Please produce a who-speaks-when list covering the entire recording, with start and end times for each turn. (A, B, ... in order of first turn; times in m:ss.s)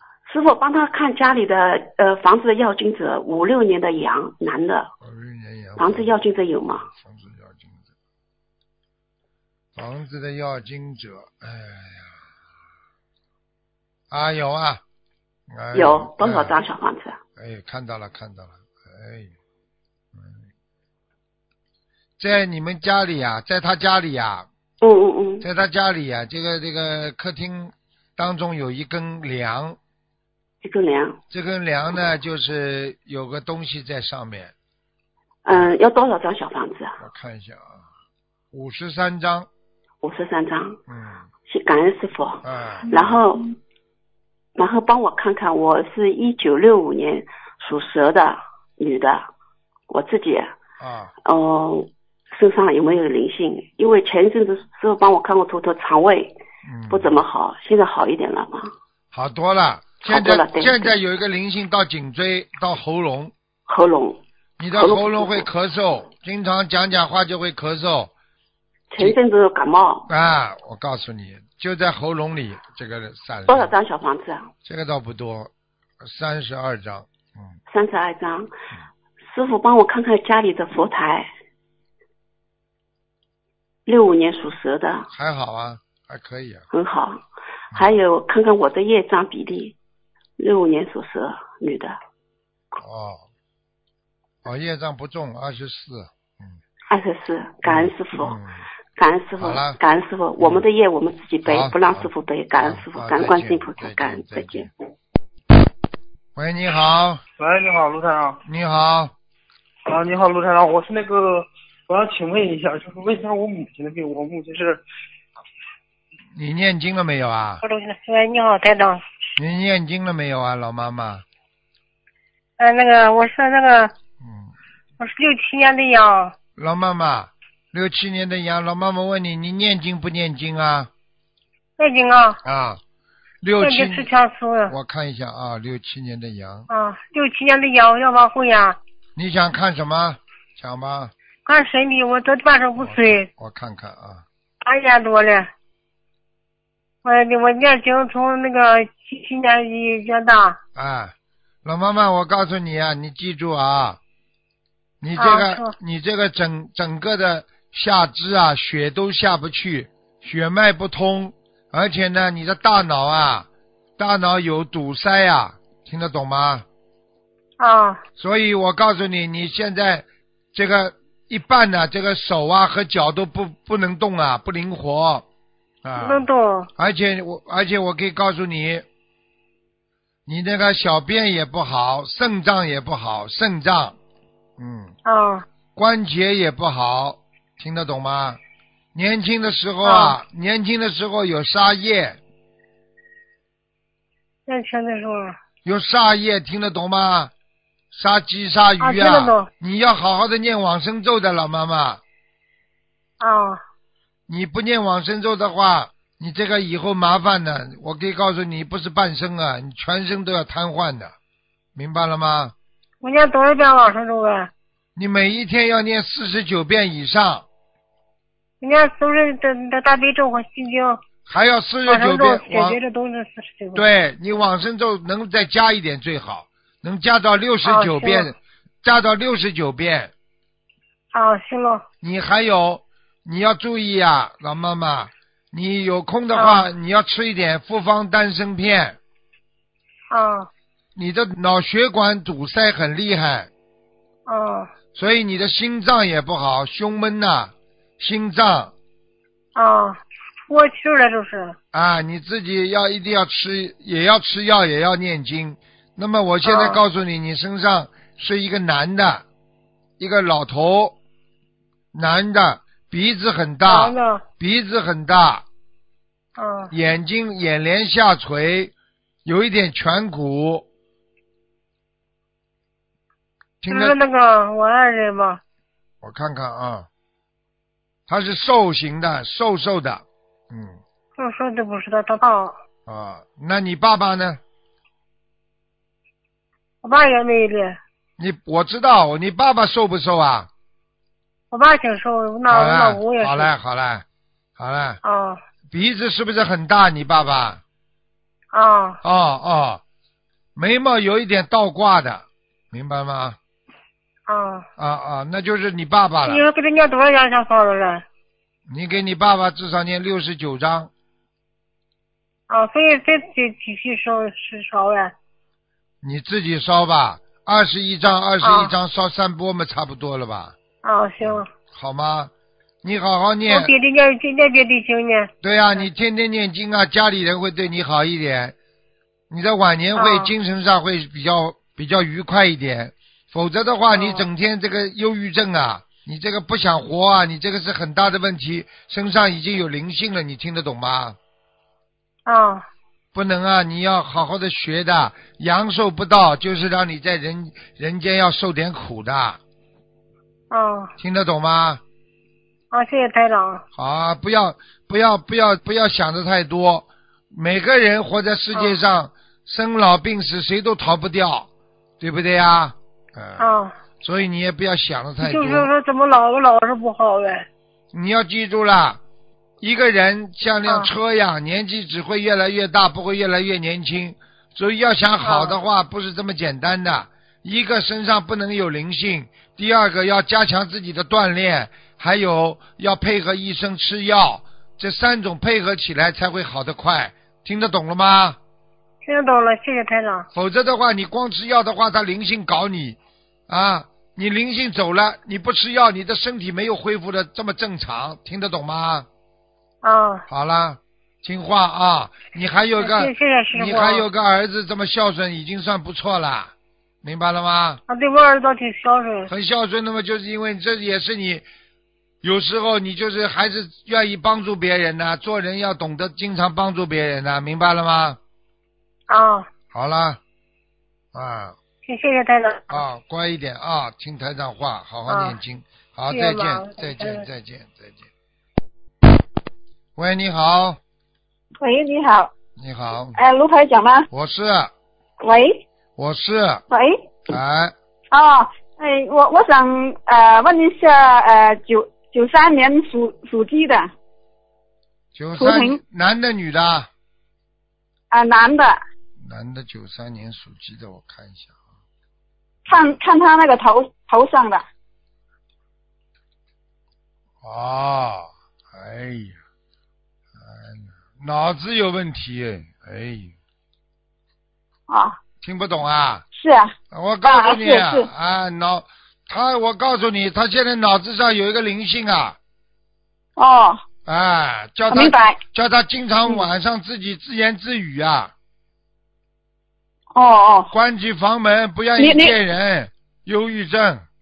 0:00.2-0:04.9 A
0:05.0-0:06.1 B
0:05.8-0:06.9 A
0:06.8-0:07.8 B
0:09.7-0:12.3 B
0:14.1-0:14.8 B
0:15.5-0:16.6 B
0:15.7-0:17.2 A
0:17.4-0:19.3 B
0:20.1-0:20.4 B
0:22.2-0:24.5 B
0:24.8-0:25.5 A
0:25.4-0:29.8 B
0:30.6-0:31.2 A
0:31.3-0:34.5 B
0:35.4-0:37.0 A
0:37.0-0:37.8 B
0:38.5-0:39.5 B
0:40.0-0:40.8 A
0:40.9-0:41.2 B
0:41.5-0:43.5 A
0:42.4-0:43.2 B
0:44.6-0:49.3 A
0:49.9-0:50.5 A
0:50.8-0:51.1 B
0:51.2-0:56.4 A
0:56.6-0:57.1 B
0:56.9-0:58.7 A
0:59.1-1:03.3 B
1:00.0-1:00.9 A
1:03.7-1:04.2 A
1:04.6-1:08.1 B
1:04.7-1:05.5 A
1:08.9-1:10.1 A
1:10.1-1:13.7 B
1:13.5-1:14.5 A
1:14.6-1:17.5 B
1:17.7-1:18.5 A
1:19.2-1:21.3 A
1:23.8-1:25.1 A
1:25.1-1:26.6 B
1:26.7-1:27.2 A
1:27.7-1:28.0 B
1:27.7-1:29.8 A
1:30.4-1:32.0 A
1:32.8-1:33.2 B
1:34.4-1:36.6 B
1:36.9-1:38.4 A
1:37.6-1:38.6 B
1:39.0-1:44.7 A
1:39.4-1:39.8 B
1:41.4-1:44.7 B
1:46.3-1:47.2 B
1:47.4-1:48.4 C
1:48.4-1:49.1 B
1:49.9-1:54.8 C
1:56.3-1:57.6 B
1:57.6-1:59.0 D
1:59.4-2:01.2 B
2:02.6-2:03.9 D
2:04.2-2:04.5 B
2:05.0-2:06.4 D
2:06.6-2:10.9 B
2:11.8-2:12.4 D
2:12.4-2:12.8 B
2:13.4-2:14.1 B
2:13.6-2:14.7 D
2:14.7-2:16.7 B
2:16.7-2:18.8 D
2:19.2-2:21.1 B
2:21.4-2:23.3 D
2:22.8-2:24.2 B
2:24.6-2:25.5 D
2:27.0-2:30.6 D
2:30.8-2:34.0 B
2:35.0-2:46.6 B
2:35.2-2:35.7 D
2:47.6-2:48.0 D
2:48.2-2:55.2 B
2:55.8-2:58.8 B
2:56.0-2:56.7 D
3:00.2-3:04.0 B
3:04.6-3:04.9 B
3:05.0-3:05.4 D
3:05.7-3:08.4 B
3:08.9-3:12.2 B
3:09.8-3:10.2 D
3:14.5-3:15.4 D
3:15.6-3:17.3 B
3:17.9-3:22.0 B
3:18.8-3:19.5 D
3:23.2-3:23.6 D
3:24.3-3:31.1 B
3:31.7-3:32.5 B
3:33.0-3:34.5 D
3:35.0-3:37.4 B
3:38.6-3:41.0 D
3:41.2-3:42.8 B
3:41.9-3:43.8 D
3:43.7-3:50.1 B
3:47.6-3:48.3 D
3:51.1-3:51.8 D
3:52.0-3:59.0 B
3:56.3-3:56.7 D
4:00.1-4:00.5 D
4:00.9-4:03.5 B
4:04.3-4:04.7 D
4:04.9-4:08.7 B
4:09.5-4:11.6 D
4:11.7-4:19.2 B
4:16.4-4:16.8 D
4:20.0-4:21.0 B
4:21.9-4:25.4 B
4:23.7-4:24.2 D
4:26.4-4:26.7 D
4:26.7-4:28.7 B
4:29.2-4:30.6 B
4:33.6-4:34.0 B
4:33.7-4:35.4 D
4:36.0-4:36.9 B
4:38.1-4:40.8 B
4:41.2-4:42.5 D
4:42.8-4:44.4 B
4:46.8-4:47.8 D
4:48.2-4:50.5 B
4:51.5-4:53.5 D
4:52.5-4:54.0 B
4:54.6-4:55.0 B
4:55.0-4:55.4 D
4:55.7-4:57.6 B
4:58.5-4:59.0 D
4:59.0-4:59.8 B
5:00.5-5:03.4 B
5:04.3-5:04.6 D
5:04.8-5:06.4 B
5:06.2-5:08.0 D
5:08.7-5:10.9 B
5:12.5-5:15.1 D
5:16.0-5:20.6 B
5:18.4-5:18.7 D
5:20.8-5:21.5 D
5:21.2-5:22.3 B
5:22.8-5:23.7 B
5:23.5-5:25.3 D
5:25.4-5:28.5 B
5:29.3-5:41.2 B
5:30.0-5:30.3 D
5:33.9-5:34.2 D
5:42.2-5:42.6 D
5:43.1-5:49.4 B
5:50.5-5:50.9 D
5:51.0-5:51.8 B
5:52.7-5:53.6 D
5:53.7-6:01.5 B
6:02.0-6:05.7 B
6:03.4-6:03.7 D
6:05.2-6:07.4 D
6:07.9-6:09.0 B
6:09.6-6:28.4 B
6:15.2-6:15.6 D
6:29.0-6:30.2 D
6:30.3-6:39.1 B
6:39.8-6:40.2 D
6:40.3-6:46.5 B
6:42.8-6:44.0 D
6:47.0-6:47.8 B
6:47.9-6:49.3 D
6:49.3-6:51.4 B
6:52.2-6:58.2 B
6:59.1-6:59.5 D
6:59.7-7:00.2 B
7:01.1-7:01.6 B
7:01.8-7:02.8 D
7:02.7-7:08.1 B
7:05.1-7:05.4 D
7:06.1-7:07.2 D
7:10.0-7:10.8 B
7:11.6-7:12.3 E
7:12.6-7:13.2 B
7:13.1-7:14.1 E
7:14.1-7:14.7 B
7:15.2-7:15.6 E
7:16.0-7:16.6 B
7:16.7-7:17.0 E
7:17.3-7:17.7 B
7:18.1-7:23.9 E
7:25.1-7:26.9 B
7:25.4-7:25.8 E
7:28.1-7:28.8 E
7:29.2-7:31.5 B
7:32.6-7:34.6 E
7:32.7-7:33.0 B
7:37.4-7:39.4 B
7:40.4-7:43.3 B
7:44.9-7:45.2 E
7:45.4-7:46.2 B
7:46.3-7:48.1 E
7:46.9-7:52.4 B
7:53.4-7:53.8 E
7:54.0-7:58.3 B
7:54.9-7:55.4 E
8:00.1-8:00.7 E
8:00.7-8:04.0 B
8:02.0-8:02.3 E